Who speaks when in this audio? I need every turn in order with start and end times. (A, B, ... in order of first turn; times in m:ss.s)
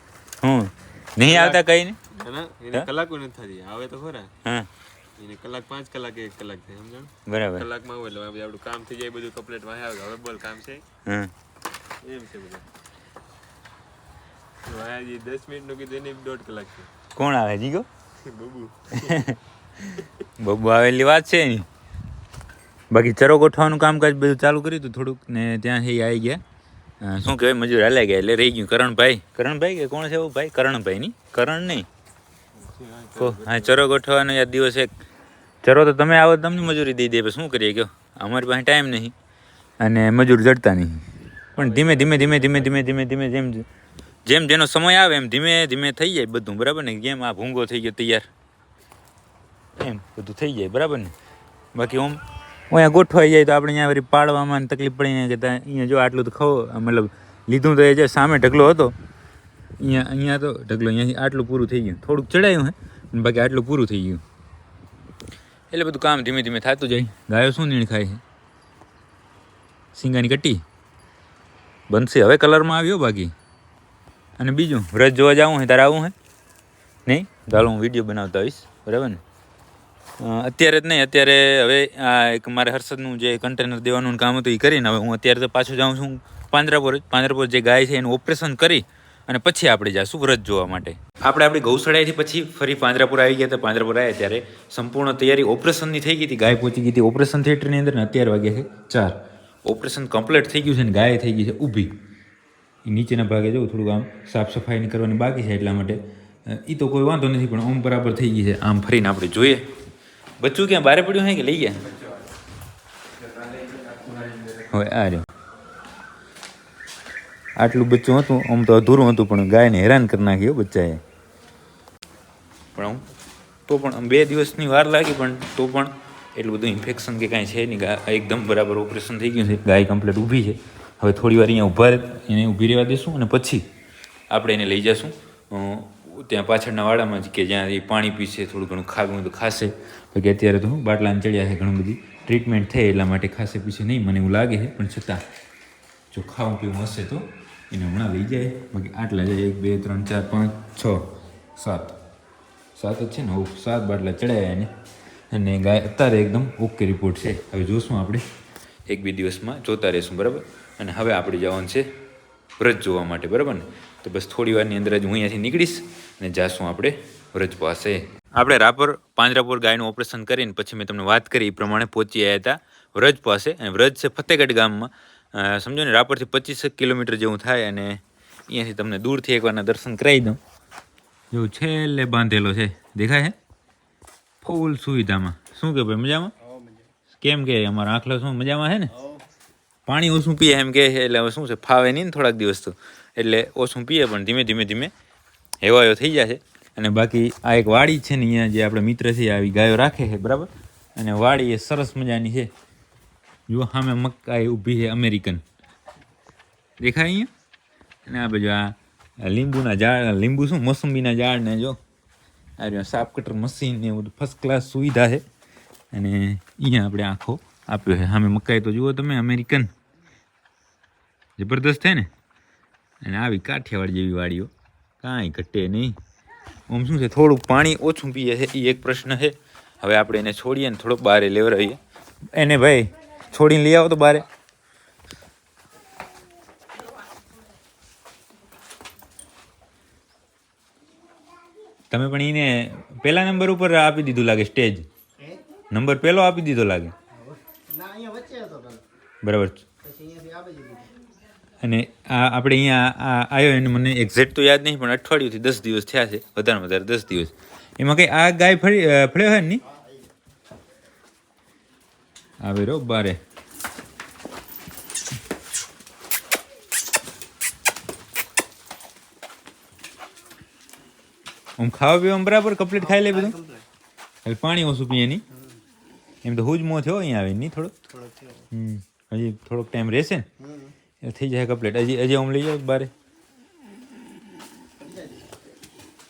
0:00.4-0:02.0 A
0:01.3-0:01.6 B
0:02.1-0:04.3 B
0:04.4-0:04.7 A
0:05.2-0:10.8 B
0:07.3-0:07.7 A
0:11.1-0:11.3 A
0:12.0-0:12.6 B
0:14.6-0:16.9 B
0:17.2-0:17.9 A
0:18.2-0:19.0 B
0:18.9-0:21.7 A
0:22.9-0:26.4 A
0:27.0-0:31.9 A
0:32.6-0:33.8 B
0:33.2-0:35.0 A
0:35.6-0:39.1 A
0:39.8-0:43.7 A
0:41.6-0:42.7 B
0:44.3-0:48.3 A
0:49.8-0:51.1 A
0:51.7-0:59.0 A
0:59.8-1:04.2 A
1:05.7-1:08.2 A
1:09.9-1:10.6 A
1:11.9-1:13.3 A
1:14.4-1:16.1 A
1:17.1-1:19.2 A
1:20.2-1:41.9 A
1:42.8-1:49.7 A
1:50.4-1:51.9 A
1:53.4-1:54.6 B
1:54.7-1:55.3 A
1:57.6-2:01.0 A
2:02.8-2:03.0 A
2:03.7-2:13.6 A
2:14.3-2:25.2 A
2:26.1-2:31.9 A
2:32.8-2:34.7 A
2:35.3-2:38.2 A
2:38.9-2:41.8 A
2:42.6-3:00.4 A
3:01.3-3:03.4 A
3:04.4-3:06.4 A
3:06.5-3:06.8 C
3:07.2-3:09.0 A
3:09.9-3:14.9 A
3:15.6-3:22.5 A
3:23.5-3:25.4 A
3:26.8-3:27.3 A
3:28.1-3:31.8 A
3:32.6-3:35.2 A
3:35.9-3:39.7 A
3:41.4-3:42.1 A
3:43.0-3:44.5 A
3:45.0-3:46.0 A
3:46.7-3:51.8 A
3:52.3-3:54.2 A
4:01.9-4:04.9 A
4:05.7-4:06.9 A
4:07.3-4:08.8 C
4:09.2-4:09.7 A
4:09.8-4:10.9 C
4:11.6-4:19.6 A
4:22.4-4:23.2 A
4:31.6-4:33.4 A
4:33.3-4:33.6 C
4:34.2-4:35.2 A
4:36.2-4:37.8 A
4:37.9-4:38.4 C
4:38.5-4:40.3 A
4:40.5-4:40.7 C
4:41.0-4:42.9 A
4:44.8-4:45.2 C